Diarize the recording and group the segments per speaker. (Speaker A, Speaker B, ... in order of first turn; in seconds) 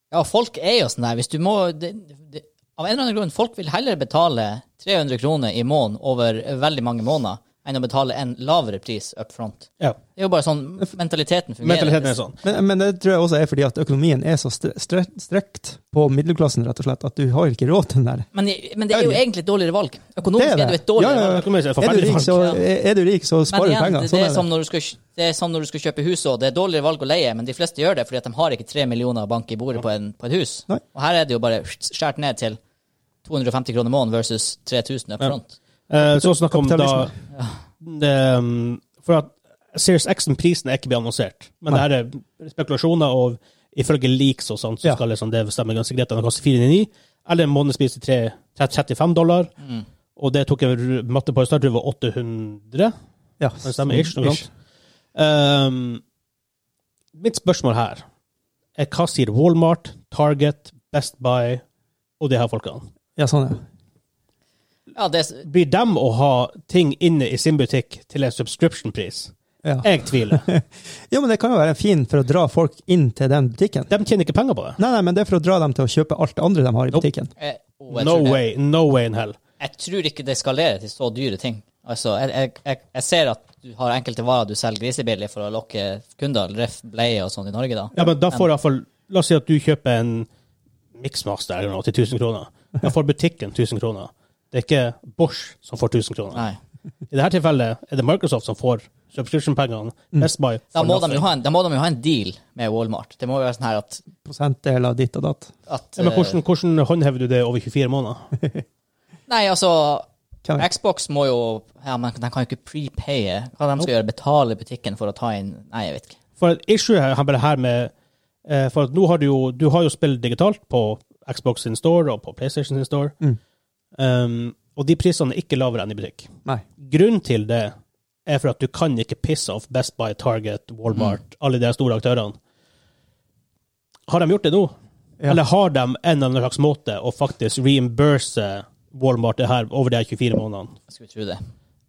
Speaker A: 0.1-12.2, 18.3-21.4, 22.1-22.6, 23.5-32.6, 33.2-35.5, 65.0-65.5, 77.4-78.4, 79.6-88.5, 100.7-104.0, 105.7-106.4, 109.3-116.2, 130.9-131.2, 140.9-141.4
Speaker B: 11.6-12.4, 21.0-22.5, 35.9-37.1, 37.8-49.5, 50.2-52.9, 53.6-54.5, 55.1-56.0, 57.2-58.0, 58.8-61.6, 62.2-62.9, 65.5-70.5, 73.9-74.8, 77.9-79.4, 88.0-90.3, 91.0-96.5, 97.1-101.3, 106.0-108.3, 116.4-117.9, 118.5-123.2, 124.0-127.7, 128.3-132.3, 134.1-134.7, 135.3-140.8
Speaker C: 12.4-18.3, 18.9-19.2, 20.3-24.5, 36.0-37.1, 53.4-54.5, 63.2-63.6, 69.6-73.9, 74.8-77.3, 104.2-105.5